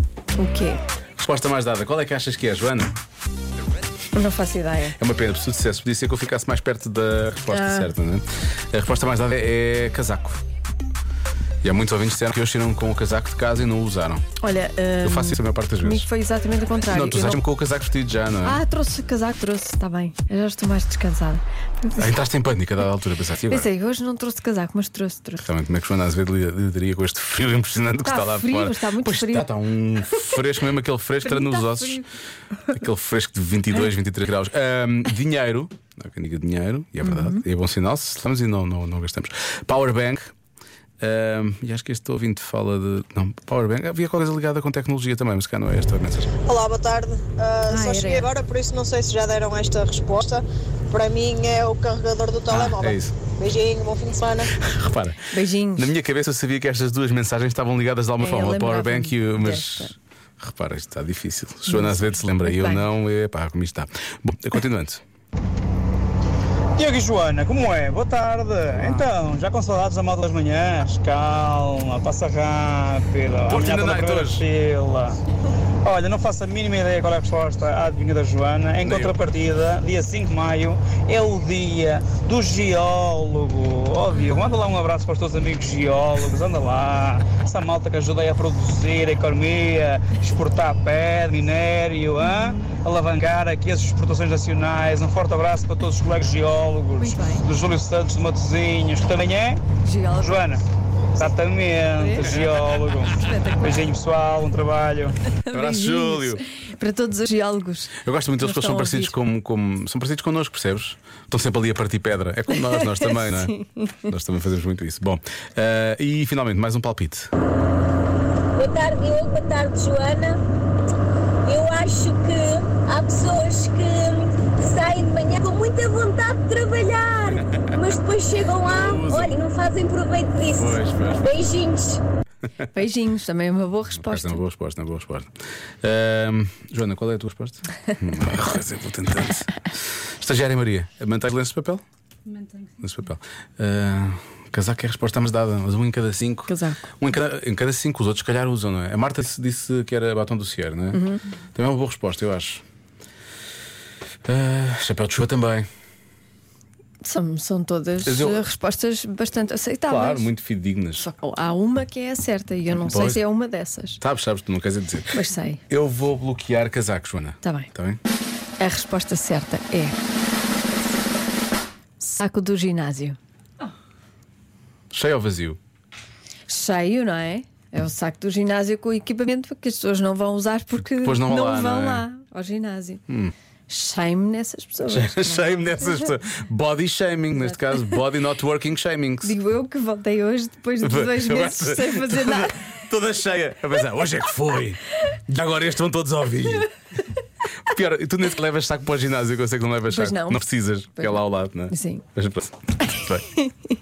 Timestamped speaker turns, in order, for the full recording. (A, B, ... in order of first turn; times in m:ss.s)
0:00.4-0:00.8 A
0:01.2-0:02.9 B
0:04.1-0:05.0 A
0:05.0-0:10.4 B
0:07.5-0:07.9 A
0:11.6-0:14.2 B
0:14.4-0:17.4 A
0:15.0-0:16.1 B
0:16.9-0:18.6 B
0:18.4-0:22.1 A
0:22.0-0:23.7 B
0:23.5-0:25.4 A
0:25.4-0:32.0 B
0:28.0-0:29.5 A
0:31.2-0:32.0 A
0:32.7-0:40.3 B
0:37.0-0:37.4 A
0:41.0-0:46.3 B
0:46.4-0:54.5 C
0:47.7-0:48.3 A
0:52.5-0:53.2 B
0:54.6-1:05.0 B
0:55.3-0:55.9 A
0:58.2-0:59.9 A
1:01.7-1:02.9 A
1:06.8-1:15.2 D
1:13.5-1:14.4 B
1:15.8-1:39.6 D
1:18.8-1:19.2 B
1:32.2-1:32.6 A
1:37.0-1:37.4 A
1:39.8-1:40.4 A
1:40.2-1:40.6 D
1:41.1-1:45.2 D
1:42.0-1:42.4 A
1:43.1-1:43.8 A
1:45.3-1:49.2 A
1:45.5-1:46.4 B
1:48.0-1:57.3 B
1:52.5-1:53.8 A
1:58.6-2:00.4 E
2:01.4-2:12.0 E
2:08.6-2:09.3 B
2:10.5-2:11.3 B
2:12.7-2:14.4 A
2:13.9-2:15.3 B
2:15.8-2:21.8 B
2:22.6-2:32.6 B
2:26.5-2:26.8 A
2:30.9-2:31.2 A
2:34.2-2:35.7 B
2:37.0-2:40.3 A
2:38.0-2:38.5 B
2:39.9-2:41.1 B
2:41.0-2:44.0 A
2:42.7-2:43.2 B
2:44.0-2:45.2 B
2:45.1-2:45.6 A
2:45.7-2:48.0 B
2:47.4-2:47.7 A
2:48.6-2:50.0 A
2:52.0-2:53.2 A
2:54.9-2:55.6 B
2:56.5-3:03.0 A
3:01.0-3:02.0 B
3:03.7-3:06.1 A
3:04.9-3:09.4 B
3:07.4-3:07.9 A
3:09.2-3:12.6 A
3:10.8-3:16.7 B
3:17.6-3:23.3 B
3:19.9-3:20.4 A
3:21.7-3:22.0 A
3:22.9-3:23.5 A